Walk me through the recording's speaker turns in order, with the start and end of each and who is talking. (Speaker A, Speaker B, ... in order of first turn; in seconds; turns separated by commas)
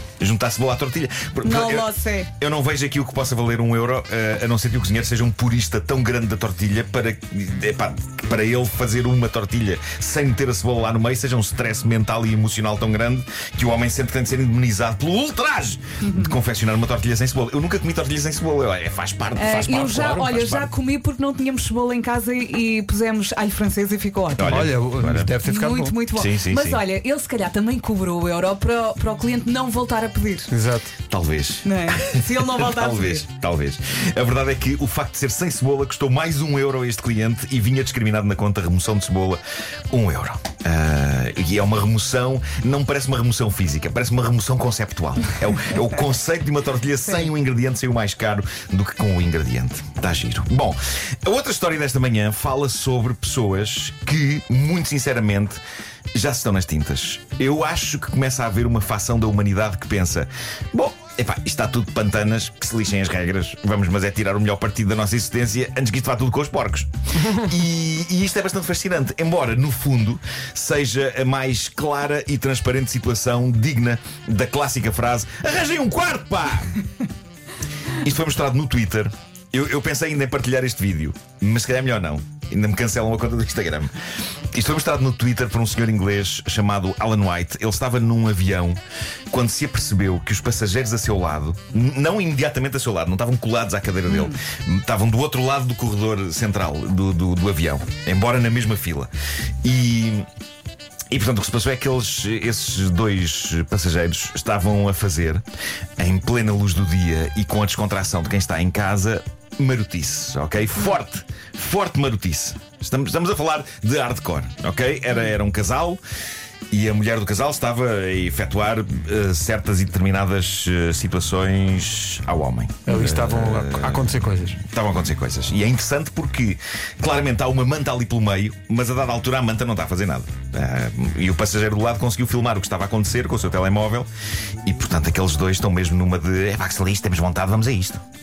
Speaker A: 0.2-20.6, Speaker B: 1.4-2.3, Speaker B: 16.0-16.4, Speaker B: 19.4-24.7, Speaker A: 24.4-25.4, Speaker C: 24.4-26.0, Speaker B: 25.4-30.5, Speaker A: 26.1-26.8, Speaker C: 30.5-30.9, Speaker A: 31.1-39.4, Speaker B: 31.6-33.2, Speaker A: 39.9-55.6, Speaker A: 56.1-76.7, Speaker A: 78.0-83.9, Speaker A: 84.5-88.8, Speaker A: 89.3-99.1, Speaker B: 94.1-94.4, Speaker A: 99.6-100.2, Speaker A: 101.1-105.4, Speaker A: 106.0-116.0, Speaker A: 116.7-134.1, Speaker C: 122.8-124.6, Speaker A: 134.6-138.0